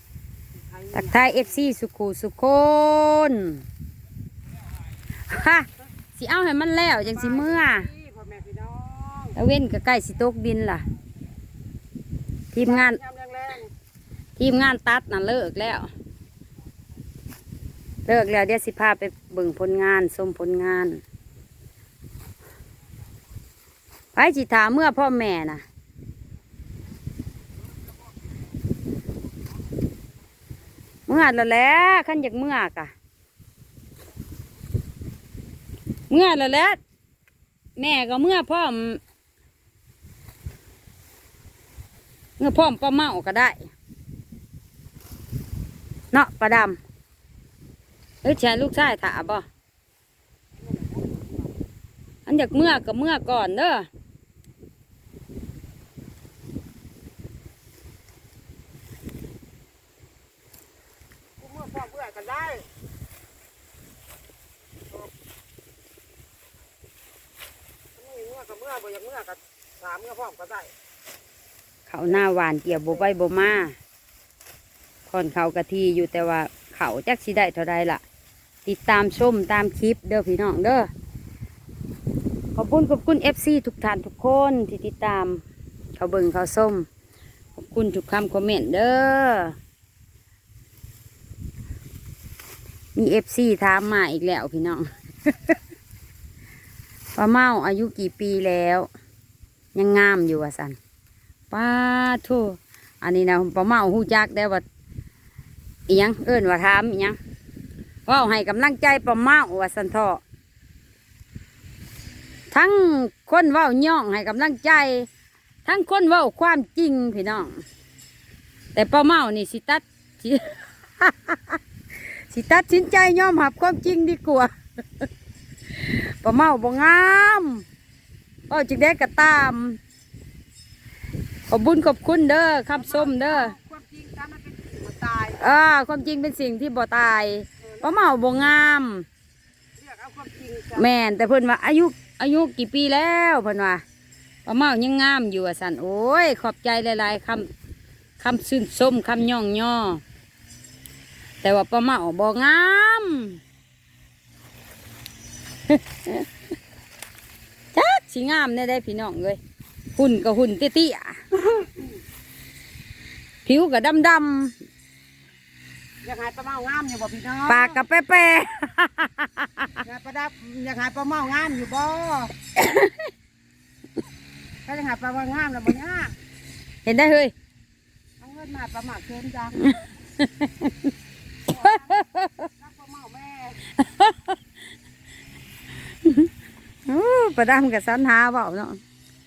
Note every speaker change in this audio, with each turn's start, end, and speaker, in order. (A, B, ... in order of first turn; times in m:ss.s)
0:00.7-0:01.3 A
0:00.9-0:03.6 B
0:05.3-0:07.9 B
0:07.1-0:09.3 A
0:09.3-0:10.8 B
0:12.5-0:13.0 B
0:12.6-0:13.7 A
0:14.4-0:15.9 B
0:18.0-0:21.0 B
0:24.1-0:25.6 B
0:31.1-0:32.9 B
0:36.1-0:36.8 B
0:37.8-0:39.0 B
0:42.4-0:43.6 B
0:46.1-0:46.8 B
0:48.2-0:49.4 B
0:50.9-0:51.2 A
0:52.2-0:53.9 B
1:01.4-1:02.7 A
1:08.0-1:10.7 A
1:11.9-1:13.7 B
1:15.1-1:18.0 B
1:18.6-1:20.9 B
1:22.5-1:25.4 B
1:26.0-1:26.9 B
1:27.6-1:29.6 B
1:32.9-1:35.6 B
1:37.1-1:38.9 B
1:39.7-1:40.8 B
1:41.5-1:44.6 B
1:45.9-1:47.2 B
1:48.1-1:50.2 B
1:52.5-1:55.1 B
1:55.6-1:57.6 B
1:58.7-2:01.6 B
2:02.1-2:04.5 B
2:05.8-2:07.6 B
2:08.5-2:09.8 B
2:11.5-2:13.5 B
2:12.8-2:15.4 A
2:15.3-2:19.0 B
2:19.8-2:20.8 A
2:20.7-2:23.8 B
2:24.4-2:27.5 B
2:28.2-2:30.0 B
2:31.4-2:33.4 B
2:35.7-2:36.2 B
2:37.7-2:39.4 B
2:40.0-2:41.4 B
2:43.4-2:44.5 B
2:46.0-2:47.8 A
2:47.5-2:49.8 B
2:49.8-2:52.3 A
2:52.6-2:53.1 B
2:54.6-2:56.1 A
2:56.8-2:57.3 B
2:58.2-2:59.8 A
2:59.6-3:00.9 B
3:01.5-3:02.0 A
3:01.5-3:02.5 B
3:02.6-3:03.6 A
3:03.8-3:04.4 B
3:06.0-3:06.3 B
3:06.9-3:08.8 B